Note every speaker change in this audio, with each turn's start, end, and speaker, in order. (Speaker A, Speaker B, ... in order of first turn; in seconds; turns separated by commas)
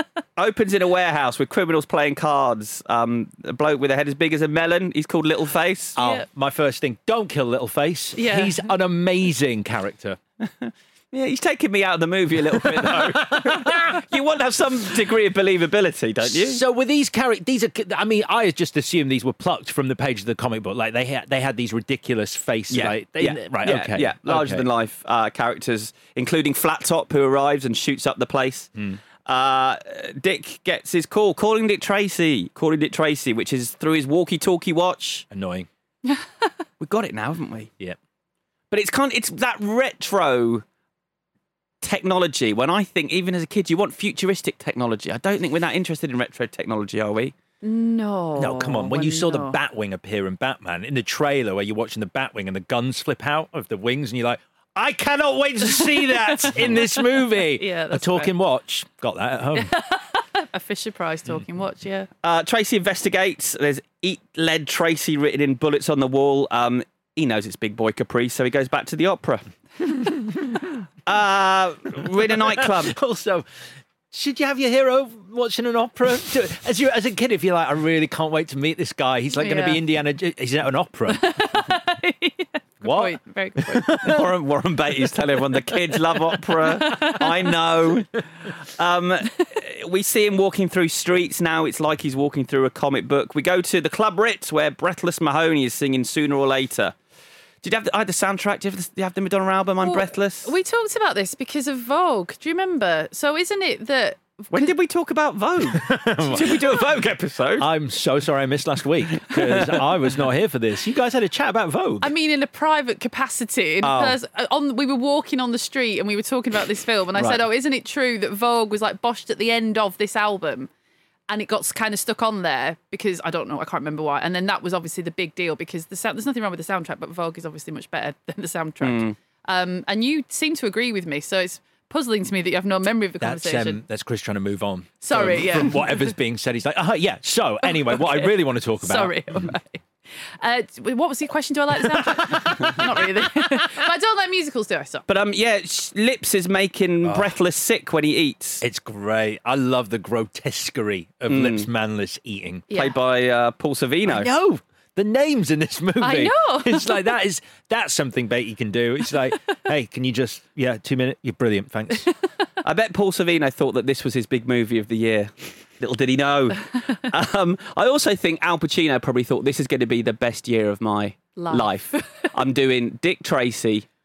Speaker A: 0.4-6.0, Speaker B: 6.0-10.2, Speaker C: 6.0-6.3, Speaker C: 8.2-8.7, Speaker A: 10.4-16.6, Speaker B: 12.5-13.8, Speaker B: 16.2-24.6, Speaker A: 22.7-28.7, Speaker A: 29.3-35.3, Speaker B: 35.3-35.7, Speaker A: 36.8-37.7, Speaker A: 38.7-40.6, Speaker A: 41.8-47.4, Speaker C: 47.6-49.6, Speaker B: 48.4-59.7, Speaker C: 55.8-58.4, Speaker C: 59.5-62.1, Speaker A: 62.2-69.4, Speaker B: 70.0-70.7, Speaker A: 71.1-73.0, Speaker B: 72.3-73.4, Speaker B: 74.1-81.4, Speaker C: 79.4-79.8, Speaker C: 81.1-83.9, Speaker B: 82.8-84.2, Speaker A: 84.0-88.2, Speaker C: 86.7-87.5, Speaker A: 88.8-96.9, Speaker A: 97.6-100.5, Speaker C: 99.8-104.7, Speaker A: 104.5-107.7, Speaker B: 105.7-106.8, Speaker B: 107.6-112.1, Speaker A: 109.2-109.8, Speaker C: 112.0-120.7, Speaker B: 113.8-114.2, Speaker B: 117.2-117.4, Speaker C: 121.3-133.8, Speaker A: 128.8-129.1, Speaker B: 133.2-139.4, Speaker C: 135.0-136.1, Speaker C: 137.6-139.8, Speaker C: 140.4-145.1, Speaker B: 141.9-142.7, Speaker A: 145.1-148.6, Speaker B: 147.0-147.4, Speaker B: 148.6-152.7, Speaker A: 151.3-151.7, Speaker C: 152.7-152.9, Speaker A: 152.7-154.3, Speaker B: 154.1-162.1, Speaker C: 156.0-157.2, Speaker A: 162.6-173.9, Speaker C: 171.4-172.3